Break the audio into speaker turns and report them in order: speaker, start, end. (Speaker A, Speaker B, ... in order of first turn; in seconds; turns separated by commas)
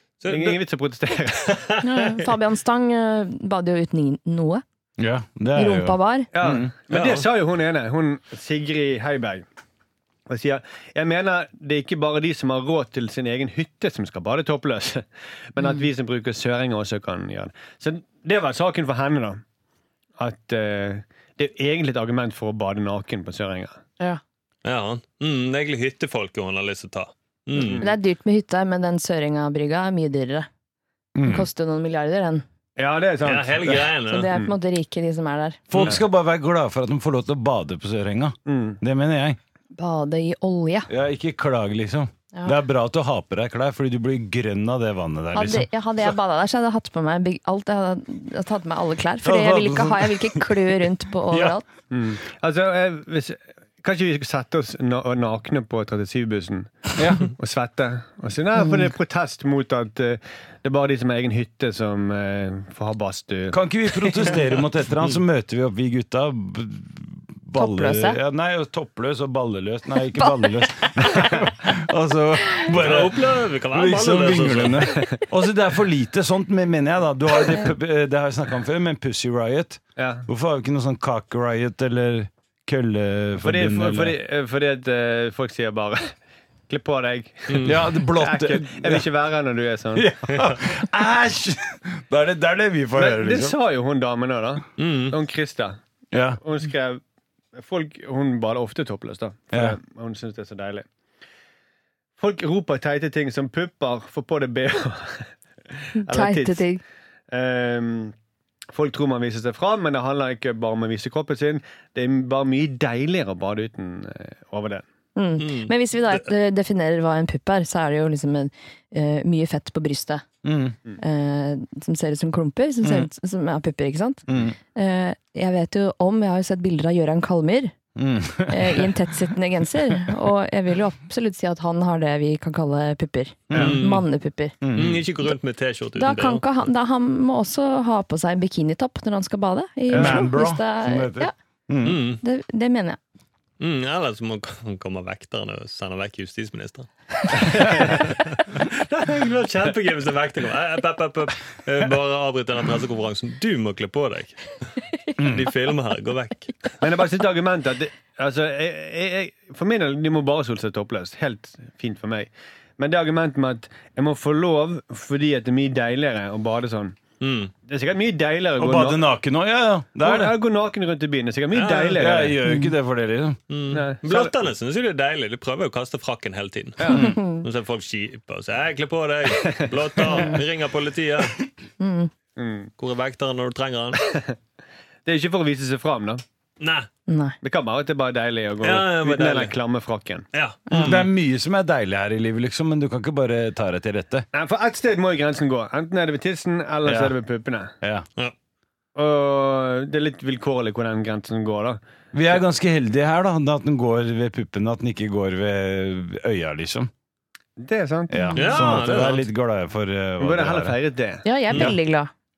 Speaker A: 0.2-0.6, Speaker B: 0.3-1.7, Speaker A: 1.5-2.2, Speaker C: 1.8-4.6, Speaker D: 5.0-6.7, Speaker C: 5.5-6.3, Speaker B: 6.3-9.4, Speaker A: 6.9-7.2, Speaker B: 10.3-19.4, Speaker B: 20.2-23.8, Speaker A: 24.6-27.8, Speaker B: 27.5-27.9, Speaker C: 27.8-30.5, Speaker D: 31.1-31.5, Speaker C: 31.2-32.4, Speaker B: 32.8-34.5, Speaker A: 33.2-34.3, Speaker C: 34.1-35.6, Speaker D: 35.7-39.4, Speaker A: 35.7-36.0, Speaker B: 38.5-38.8, Speaker C: 39.7-40.9, Speaker D: 40.9-45.7, Speaker C: 45.3-51.6, Speaker D: 49.2-50.7, Speaker D: 51.3-51.6, Speaker B: 51.9-63.6, Speaker D: 57.0-57.3, Speaker C: 58.6-58.9, Speaker D: 63.5-84.2, Speaker C: 67.5-68.2, Speaker C: 70.2-71.3, Speaker A: 72.7-75.0, Speaker B: 74.9-75.2, Speaker B: 80.0-80.3, Speaker B: 83.4-86.1, Speaker B: 86.7-90.1, Speaker A: 87.5-87.8, Speaker D: 87.6-89.0, Speaker D: 89.9-93.5, Speaker B: 93.0-95.8, Speaker A: 94.8-95.2, Speaker D: 96.1-96.4, Speaker B: 96.4-97.0, Speaker B: 97.5-100.9, Speaker D: 99.5-99.8, Speaker B: 102.2-106.6, Speaker C: 106.0-106.8, Speaker B: 107.3-108.1, Speaker B: 108.7-114.8, Speaker C: 115.2-120.2, Speaker A: 115.4-116.2, Speaker D: 120.4-120.8, Speaker C: 121.0-127.7, Speaker D: 124.3-124.5, Speaker D: 128.0-128.9, Speaker C: 128.5-134.6, Speaker D: 133.5-133.8, Speaker A: 133.5-134.0, Speaker B: 133.5-133.8, Speaker D: 134.6-135.0, Speaker A: 134.7-136.4, Speaker C: 135.9-141.3, Speaker B: 139.9-140.2, Speaker D: 139.9-142.0, Speaker A: 141.8-142.2, Speaker C: 142.2-143.0, Speaker A: 143.6-154.6, Speaker B: 147.3-147.9, Speaker A: 155.1-156.7, Speaker D: 155.2-155.5, Speaker B: 156.8-167.0, Speaker A: 167.2-167.5, Speaker B: 167.7-169.0, Speaker D: 168.6-170.4, Speaker B: 170.0-172.4, Speaker A: 171.5-172.1, Speaker D: 171.9-173.4, Speaker C: 172.4-172.7, Speaker A: 173.5-181.4, Speaker B: 173.7-174.3, Speaker B: 176.8-177.1, Speaker C: 176.9-177.4, Speaker D: 176.9-177.2, Speaker B: 179.4-180.3, Speaker C: 180.1-180.4, Speaker C: 181.8-182.1, Speaker B: 182.4-182.7, Speaker A: 182.8-184.0, Speaker B: 185.0-186.2, Speaker A: 186.6-186.9, Speaker C: 187.1-187.4, Speaker B: 187.4-190.3, Speaker A: 188.6-189.5, Speaker A: 190.3-191.1, Speaker C: 190.7-191.0, Speaker D: 190.7-194.2, Speaker B: 194.3-197.7, Speaker D: 196.8-197.1, Speaker D: 197.8-198.1, Speaker B: 198.9-201.8, Speaker D: 202.1-206.9, Speaker B: 207.6-208.3, Speaker D: 208.1-210.8, Speaker C: 208.2-208.4, Speaker A: 208.3-209.2, Speaker B: 210.2-211.2, Speaker C: 211.2-212.1